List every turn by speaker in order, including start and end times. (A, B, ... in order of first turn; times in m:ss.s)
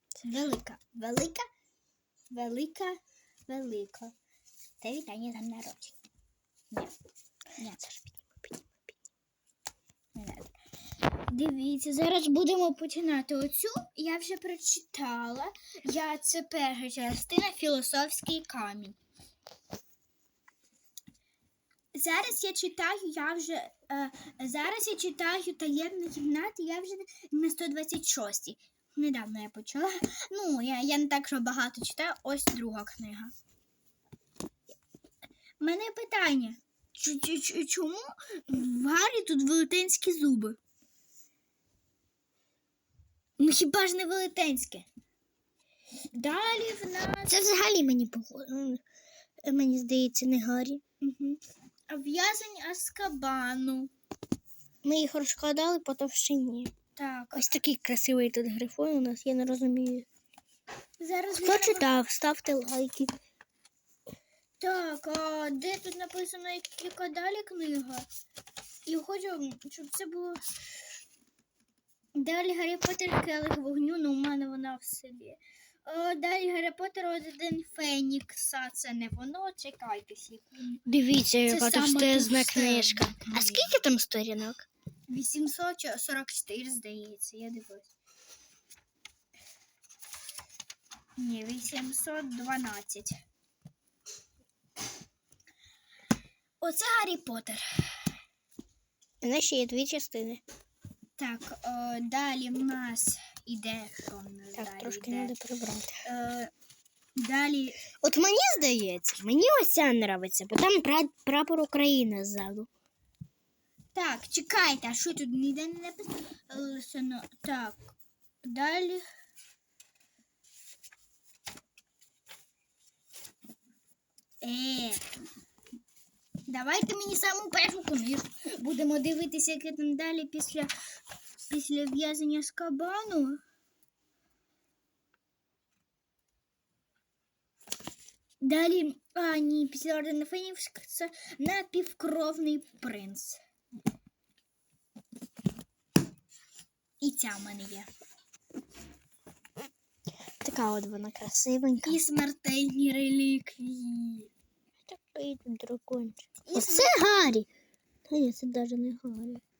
0:00.2-0:01.4 A
0:02.3-0:04.1 A
0:04.8-0:06.0 A
0:07.6-0:07.9 A
0:08.1-0:08.8 B
0:10.1-0:10.5 A
0:11.1-0:19.0 A
0:21.9-0:33.3 A
0:35.6-0:40.6 A
0:43.4-0:44.9 A
0:46.1-0:47.4 A
0:47.3-0:48.8 B
0:49.4-0:50.8 B
0:51.0-0:51.4 A
0:51.9-0:53.9 A
0:54.8-0:56.7 B
0:57.0-0:57.4 A
0:57.3-1:00.0 B
1:01.0-1:01.8 A
1:01.4-1:03.1 B
1:04.6-1:08.1 A
1:08.8-1:10.4 A
1:12.1-1:20.8 A
1:20.8-1:24.6 B
1:21.4-1:23.7 A
1:25.1-1:27.9 A
1:31.2-1:33.2 A
1:36.6-1:38.1 A
1:39.2-1:40.4 B
1:41.2-1:45.3 A
1:44.6-1:46.0 B
1:46.0-1:46.5 A
1:47.2-1:47.8 A
1:48.0-1:52.7 B
1:53.9-1:59.0 A
2:04.4-2:05.0 A
2:06.5-2:10.7 A
2:11.4-2:13.4 A
2:18.4-2:23.4 A
2:27.0-2:27.9 A
2:30.4-2:32.0 B
2:31.8-2:34.3 A
2:34.9-2:37.5 B
2:36.4-2:37.0 A
2:38.1-2:39.4 B